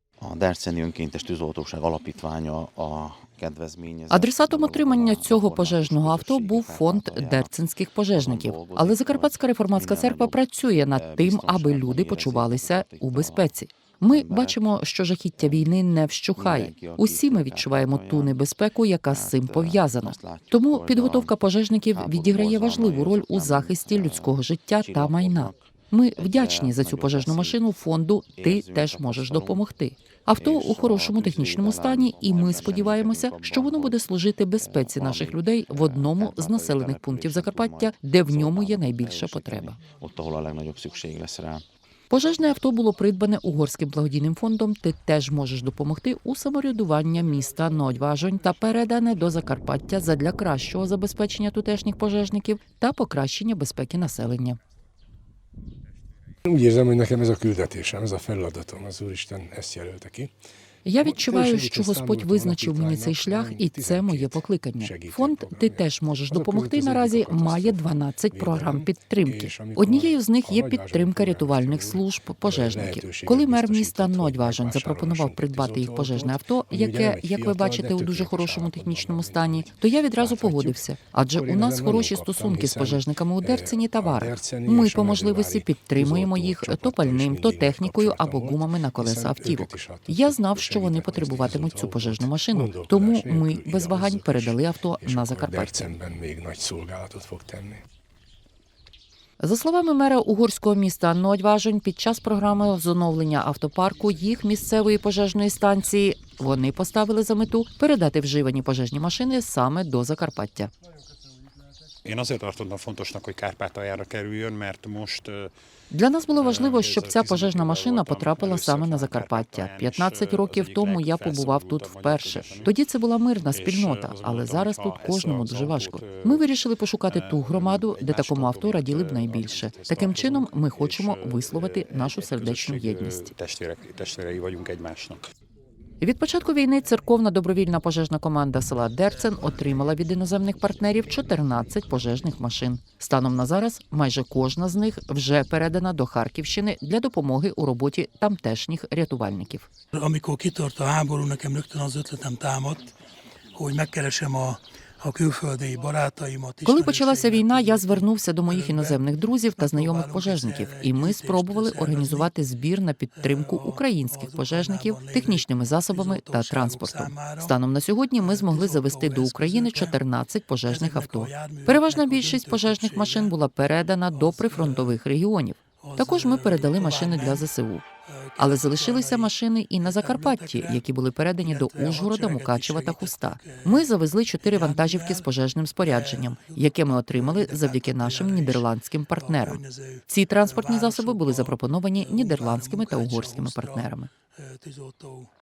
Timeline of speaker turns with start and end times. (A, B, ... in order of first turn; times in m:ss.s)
0:00.2-0:07.5 A
0:04.1-0:39.8 B
0:08.1-0:10.4 A
0:10.9-0:13.5 A
0:14.1-0:14.7 A
0:15.4-0:15.7 A
0:16.4-0:18.4 A
0:19.1-0:27.6 A
0:28.4-0:29.6 A
0:30.4-0:34.0 A
0:34.6-0:41.6 A
0:42.1-0:54.6 B
0:56.4-1:00.3 C
1:00.8-1:36.0 B
1:01.0-1:37.8 C
1:39.4-1:50.7 B
1:52.0-1:55.5 D
1:55.9-2:13.3 B
1:56.3-2:02.7 D
2:03.5-2:06.4 D
2:07.0-2:15.3 D
2:16.0-2:29.7 B
2:29.9-2:32.9 E
2:33.5-2:39.0 E
2:36.6-2:57.8 B
2:39.6-2:42.3 E
2:43.2-2:47.6 E
2:48.2-2:50.0 E
2:50.6-2:53.4 E
2:54.1-2:55.0 E
2:55.8-2:57.5 E
2:58.0-3:00.8 E
2:58.4-3:14.1 B
3:01.4-3:05.3 E
3:05.8-3:15.3 E